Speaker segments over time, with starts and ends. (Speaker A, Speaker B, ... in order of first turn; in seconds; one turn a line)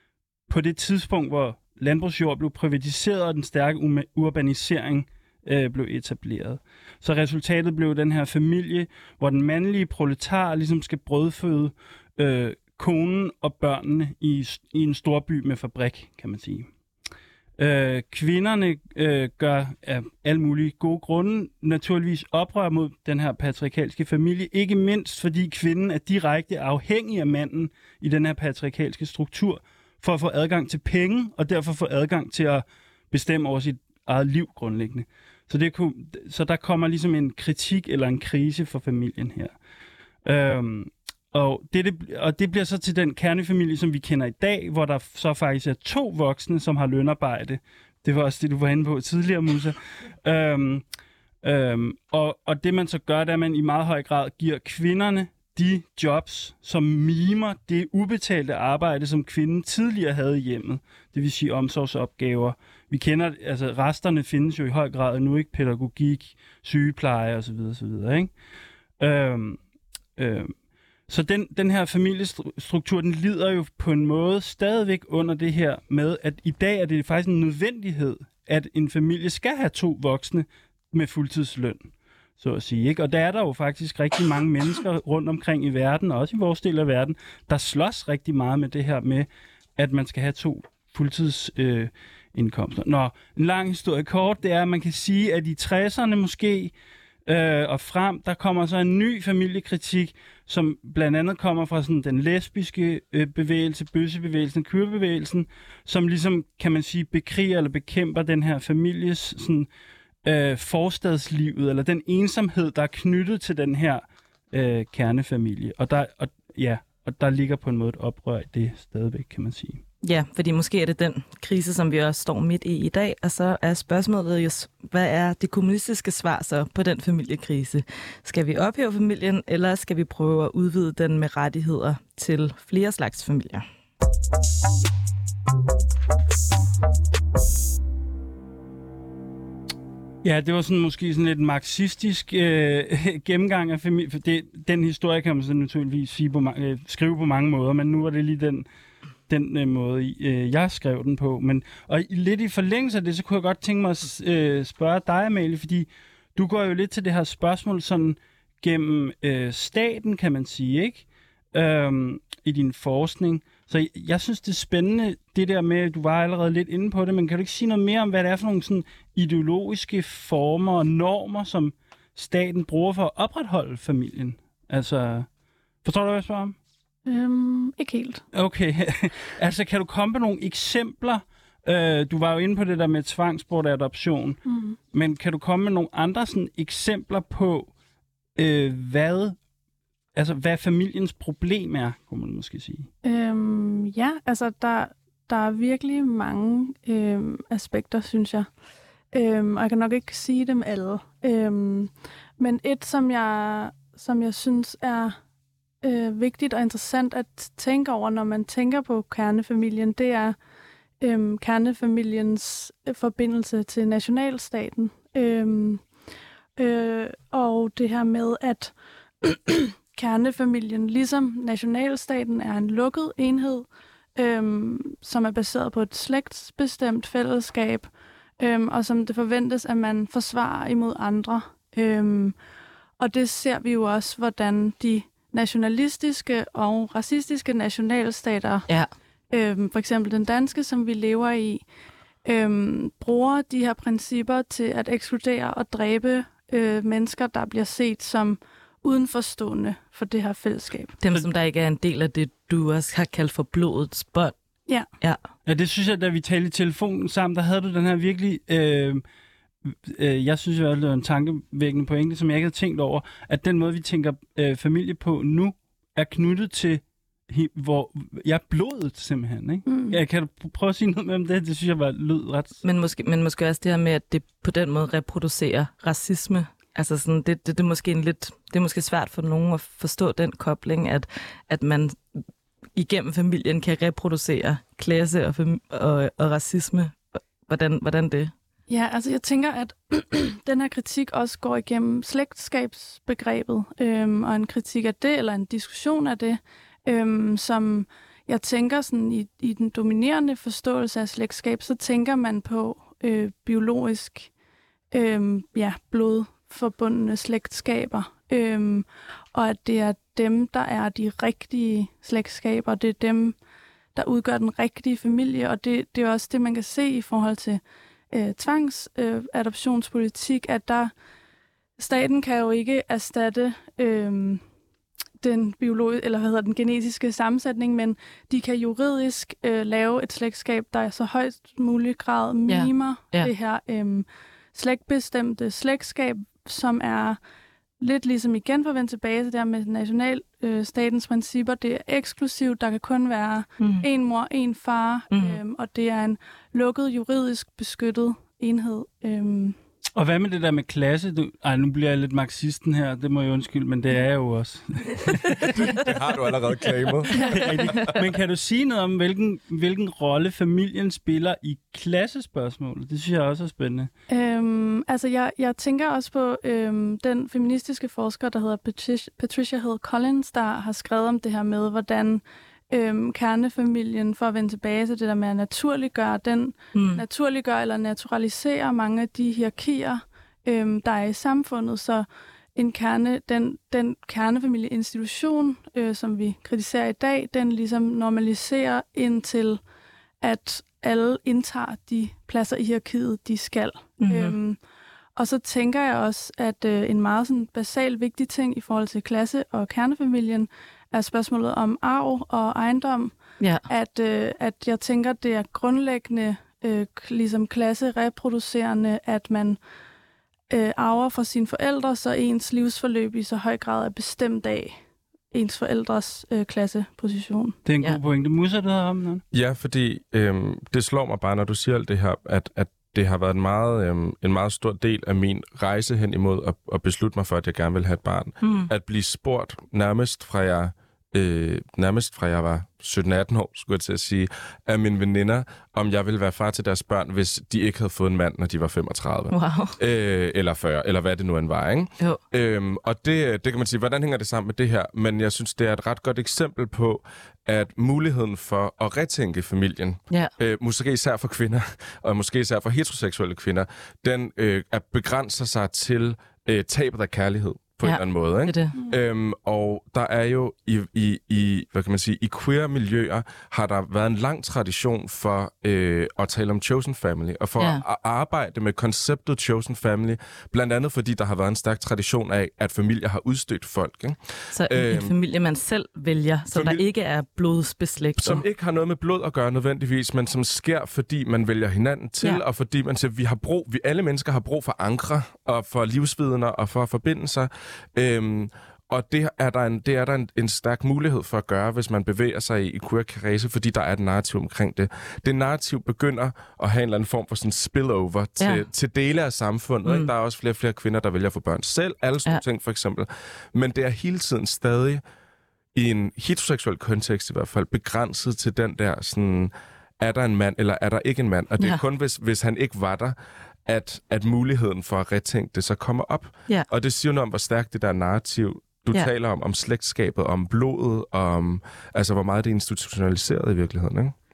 Speaker A: 0.5-16.7
Speaker A: 17.6-39.5
Speaker A: 40.2-50.8
Speaker A: 51.4-68.3
Speaker A: 69.0-69.6
Speaker A: 70.2-70.5
Speaker A: 71.1-96.7
Speaker A: 97.2-109.7
Speaker A: 110.2-119.8
Speaker B: 120.0-133.6
Speaker A: 140.2-148.7
Speaker A: 149.3-175.3
Speaker A: 175.8-176.6
Speaker C: 177.1-178.2
Speaker A: 178.3-184.4
Speaker C: 184.4-184.8
Speaker A: 184.9-187.7
Speaker A: 188.3-189.3
Speaker A: 190.1-192.9
Speaker C: 193.0-198.5
Speaker C: 199.1-205.2
Speaker C: 205.8-210.4
Speaker C: 211.0-215.8
Speaker C: 216.6-232.3
Speaker C: 233.0-238.7
Speaker C: 239.3-241.6
Speaker C: 242.2-250.9
Speaker B: 251.0-254.3
Speaker A: 255.4-259.0
Speaker A: 259.6-272.6
Speaker C: 269.6-270.0
Speaker B: 272.6-282.2
Speaker B: 282.8-288.3
Speaker C: 288.7-304.3
Speaker C: 304.9-313.4
Speaker C: 313.9-320.9
Speaker C: 321.8-324.4
Speaker C: 325.2-337.2
Speaker B: 332.5-333.3
Speaker C: 337.8-349.6
Speaker B: 343.6-343.9
Speaker B: 345.1-345.4
Speaker A: 349.9-355.8
Speaker D: 355.5-358.1
Speaker A: 357.1-363.9
Speaker C: 357.2-357.6
Speaker C: 364.1-389.6
Speaker B: 376.7-377.0
Speaker C: 390.2-394.6
Speaker B: 394.0-394.4
Speaker C: 395.1-409.6
Speaker B: 403.4-403.6
Speaker C: 410.5-414.8
Speaker C: 415.3-417.6
Speaker A: 417.6-419.2
Speaker D: 419.3-475.1
Speaker B: 428.4-428.7
Speaker B: 439.3-439.8
Speaker B: 457.8-458.8
Speaker B: 474.5-478.4
Speaker D: 476.5-476.8
Speaker D: 478.2-505.0
Speaker B: 498.4-498.6
Speaker D: 505.7-524.1